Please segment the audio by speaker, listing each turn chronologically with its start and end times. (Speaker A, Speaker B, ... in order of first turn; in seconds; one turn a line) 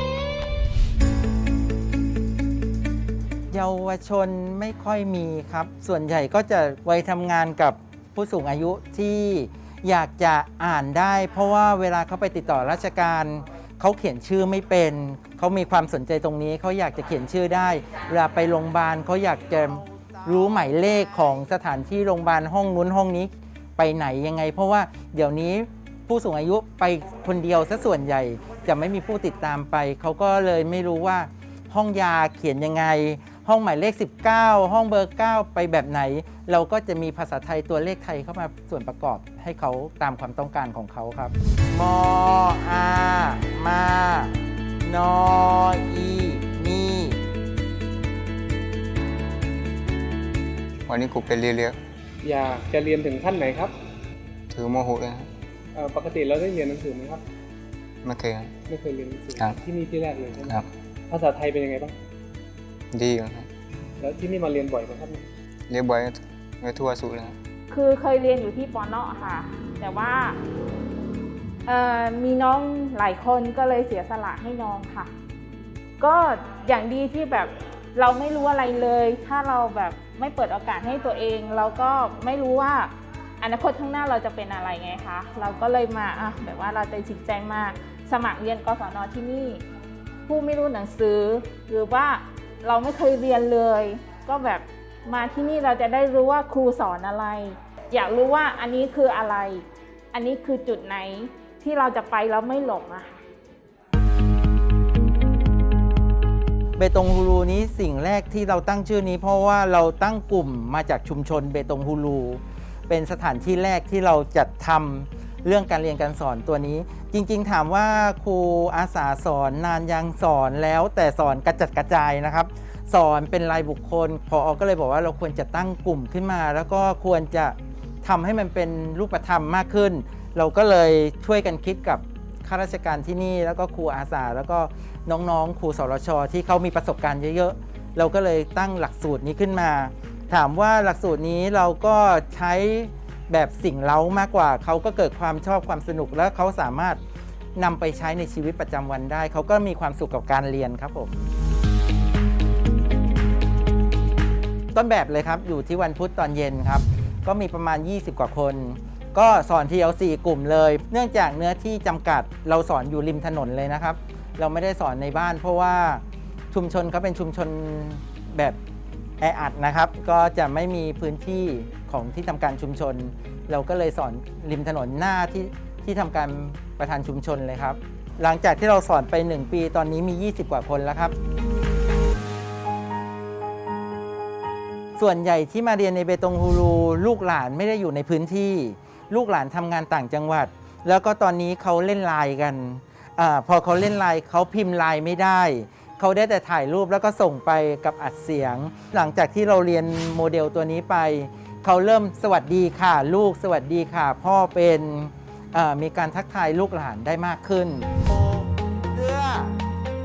Speaker A: 3.5-47.2
Speaker B: 50.9-51.8
Speaker C: 52.2-53.7
Speaker B: 54.5-55.3
Speaker C: 55.8-57.2
Speaker B: 58.0-58.5
Speaker C: 58.7-60.5
Speaker B: 59.3-59.6
Speaker C: 61.1-61.9
Speaker B: 62.9-63.5
Speaker C: 64.0-65.2
Speaker B: 65.7-67.4
Speaker D: 67.7-70.3
Speaker D: 71.7-75.1
Speaker D: 76.0-89.6
Speaker D: 90.3-103.2
Speaker A: 106.8-147.0
Speaker A: 147.6-151.2
Speaker A: 154.7-168.6
Speaker A: 169.2-181.1
Speaker A: 184.9-208.1